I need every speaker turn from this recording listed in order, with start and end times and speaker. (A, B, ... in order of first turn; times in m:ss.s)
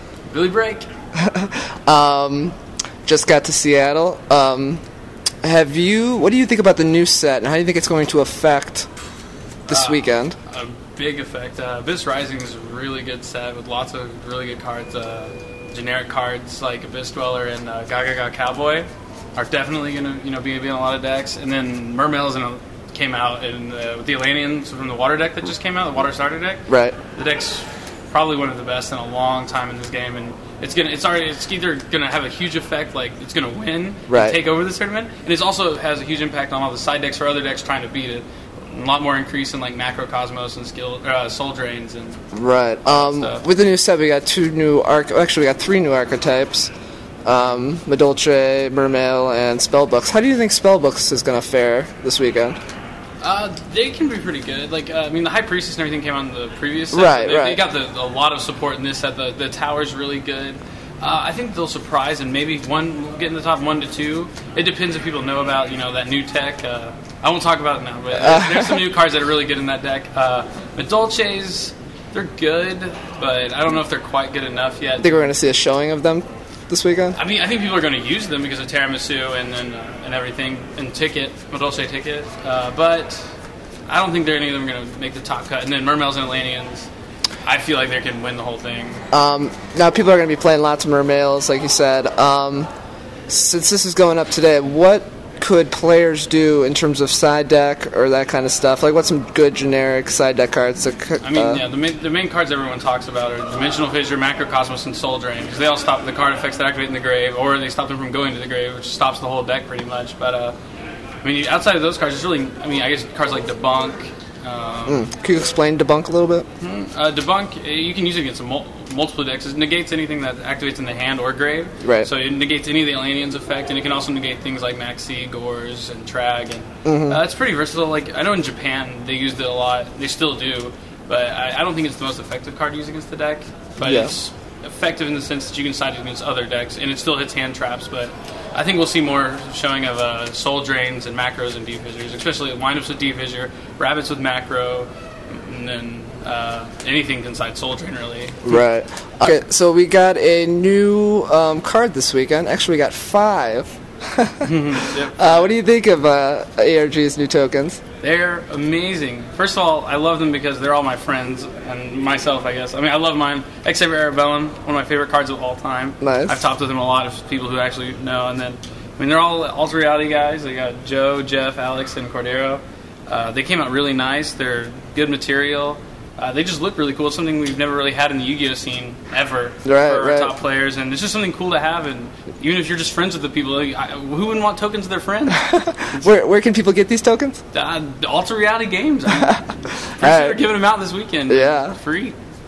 0:00.3-0:00.9 A
0:01.2-0:04.8 B
0:05.4-0:08.9 B
0:09.7-0:10.4 B
0:09.7-0:42.2 A
0:26.7-0:27.0 B
0:34.1-0:34.4 B
0:42.3-0:46.7 B
0:42.8-0:43.4 A
0:47.2-0:52.6 B
0:53.2-1:15.3 A
0:56.9-0:57.6 B
1:08.1-1:08.9 B
1:15.0-1:17.2 B
1:17.1-1:23.3 A
1:23.9-1:26.9 A
1:27.4-1:29.0 A
1:29.1-1:32.7 B
1:33.3-1:41.6 B
1:41.2-1:50.6 A
1:51.2-1:55.0 A
1:54.9-1:56.4 B
1:56.6-2:28.5 A
2:01.8-2:02.1 B
2:06.8-2:07.2 B
2:13.8-2:14.2 B
2:28.4-2:34.5 B
2:34.4-2:35.5 A
2:35.2-2:37.8 B
2:38.0-3:05.4 A
2:46.0-2:46.4 B
2:59.6-3:00.3 B
3:05.3-3:07.4 B
3:07.5-3:12.2 A
3:10.0-3:10.4 B
3:11.3-3:11.8 B